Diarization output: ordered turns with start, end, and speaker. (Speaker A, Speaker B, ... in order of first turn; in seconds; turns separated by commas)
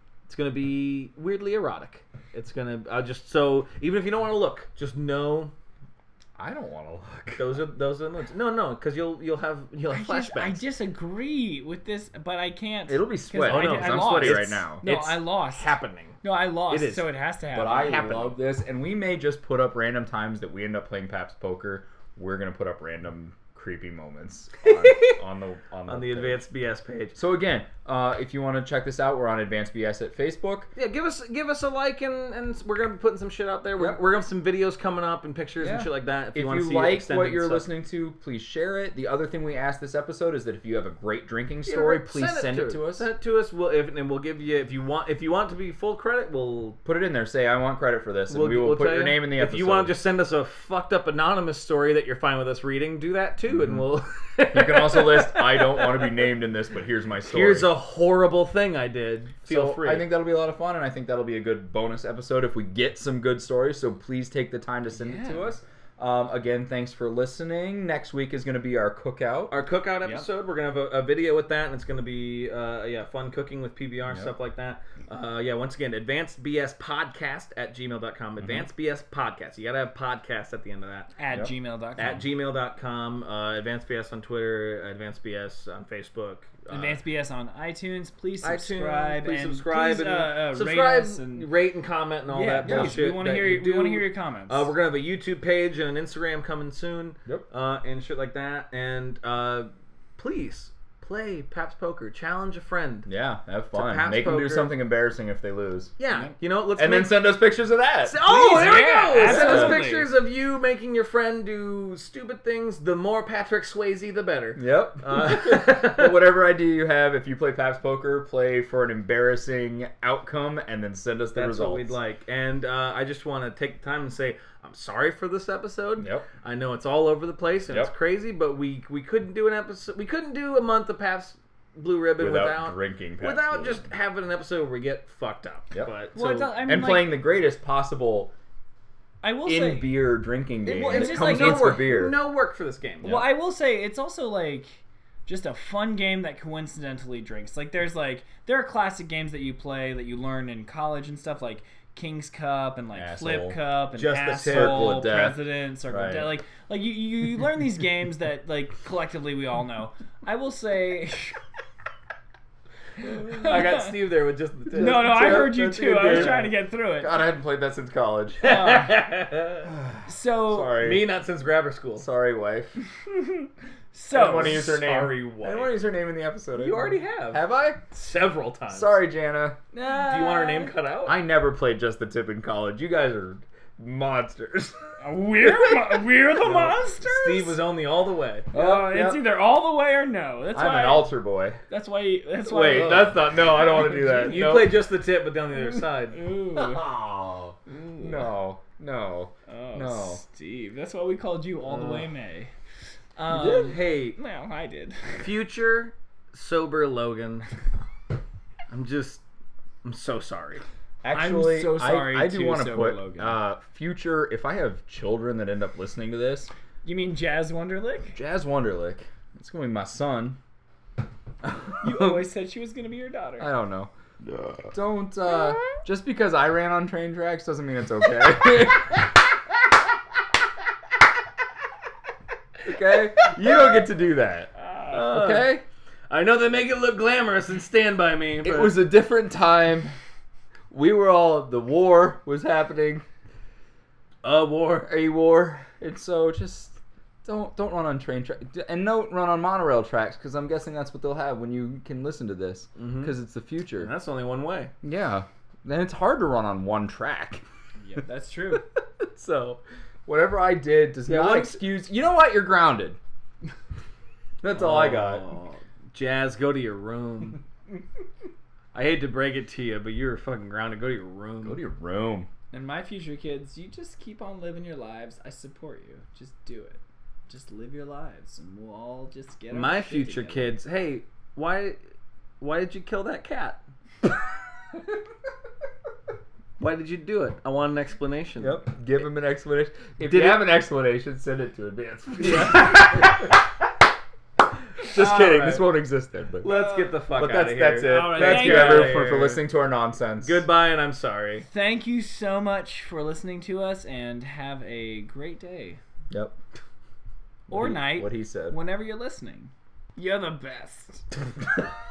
Speaker A: 0.3-5.5, Speaker B: 6.4-7.5, Speaker A: 7.4-10.6, Speaker C: 9.9-18.3, Speaker B: 12.9-14.8, Speaker A: 13.4-17.0, Speaker B: 17.5-26.4, Speaker A: 24.6-25.2, Speaker A: 25.9-27.2, Speaker B: 27.1-30.7, Speaker A: 30.8-37.7, Speaker B: 35.6-43.1, Speaker A: 41.6-46.8, Speaker B: 46.9-50.0, Speaker A: 48.3-56.1, Speaker B: 54.5-57.7, Speaker A: 57.2-60.1, Speaker B: 59.5-69.6, Speaker C: 64.9-65.5, Speaker A: 69.5-81.1, Speaker B: 78.4-78.7, Speaker C: 81.2-82.3, Speaker A: 82.0-87.0, Speaker C: 86.7-91.5, Speaker A: 88.4-103.1, Speaker C: 92.3-94.7, Speaker B: 92.6-93.0, Speaker B: 103.1-105.9, Speaker A: 103.7-104.7, Speaker A: 106.0-107.3, Speaker B: 106.8-108.2, Speaker A: 108.0-116.2, Speaker C: 108.2-110.1, Speaker B: 109.2-109.8, Speaker B: 114.6-122.0, Speaker A: 121.3-136.5, Speaker B: 126.0-126.3, Speaker B: 132.2-133.9, Speaker C: 136.2-137.2, Speaker B: 136.6-138.3, Speaker C: 139.2-140.0, Speaker B: 139.5-142.2, Speaker A: 140.7-143.2, Speaker C: 140.8-141.9, Speaker C: 143.0-161.4, Speaker B: 152.9-153.6, Speaker A: 153.9-155.0, Speaker B: 154.3-156.3, Speaker A: 163.1-166.5, Speaker C: 163.2-163.9, Speaker B: 164.7-168.5, Speaker C: 164.8-167.2, Speaker C: 168.4-169.0, Speaker A: 168.4-169.7, Speaker B: 169.7-171.1, Speaker C: 170.1-170.8, Speaker A: 170.8-172.1, Speaker B: 172.0-172.8, Speaker C: 173.0-175.1, Speaker B: 174.1-177.8, Speaker A: 174.2-175.7, Speaker A: 176.6-179.0, Speaker B: 178.7-184.9, Speaker A: 179.9-181.2, Speaker C: 185.0-187.6, Speaker B: 185.4-186.0, Speaker A: 186.5-188.5, Speaker C: 188.5-191.1, Speaker B: 188.5-189.2, Speaker B: 190.5-191.6, Speaker C: 191.7-194.4, Speaker A: 192.5-193.3, Speaker B: 192.6-194.8, Speaker A: 194.2-196.2, Speaker C: 195.7-196.9, Speaker B: 196.5-200.2, Speaker C: 197.7-198.1, Speaker C: 199.5-202.5, Speaker C: 203.2-205.2, Speaker A: 203.3-204.2, Speaker A: 205.2-207.5, Speaker A: 208.7-209.2, Speaker A: 209.8-210.6, Speaker B: 211.0-216.5, Speaker C: 211.1-213.4, Speaker C: 216.8-218.2, Speaker B: 218.2-220.4, Speaker B: 221.5-222.3, Speaker C: 221.8-223.5, Speaker B: 223.4-223.9, Speaker B: 224.7-229.2, Speaker B: 232.7-235.6, Speaker A: 234.9-235.5, Speaker A: 236.1-238.8, Speaker B: 238.4-239.9, Speaker B: 240.7-243.1, Speaker A: 244.2-244.9, Speaker B: 244.8-253.9, Speaker A: 252.8-253.2, Speaker A: 253.8-254.7, Speaker B: 254.8-257.4, Speaker C: 257.8-258.6, Speaker B: 259.0-263.0, Speaker A: 261.1-261.6, Speaker B: 264.4-265.2, Speaker A: 264.5-267.4, Speaker A: 268.7-271.6, Speaker B: 271.4-272.3, Speaker C: 272.5-280.6, Speaker A: 279.5-281.8, Speaker A: 282.4-283.6, Speaker A: 286.6-288.6, Speaker B: 288.4-293.3, Speaker A: 290.0-290.4, Speaker A: 292.3-292.7, Speaker B: 294.8-296.6, Speaker A: 294.8-295.7, Speaker A: 296.4-299.4, Speaker C: 296.4-296.9, Speaker B: 297.2-300.4, Speaker C: 297.9-299.1, Speaker A: 300.2-301.5, Speaker C: 301.5-305.8, Speaker B: 306.1-306.4, Speaker B: 307.5-308.6, Speaker C: 307.5-311.1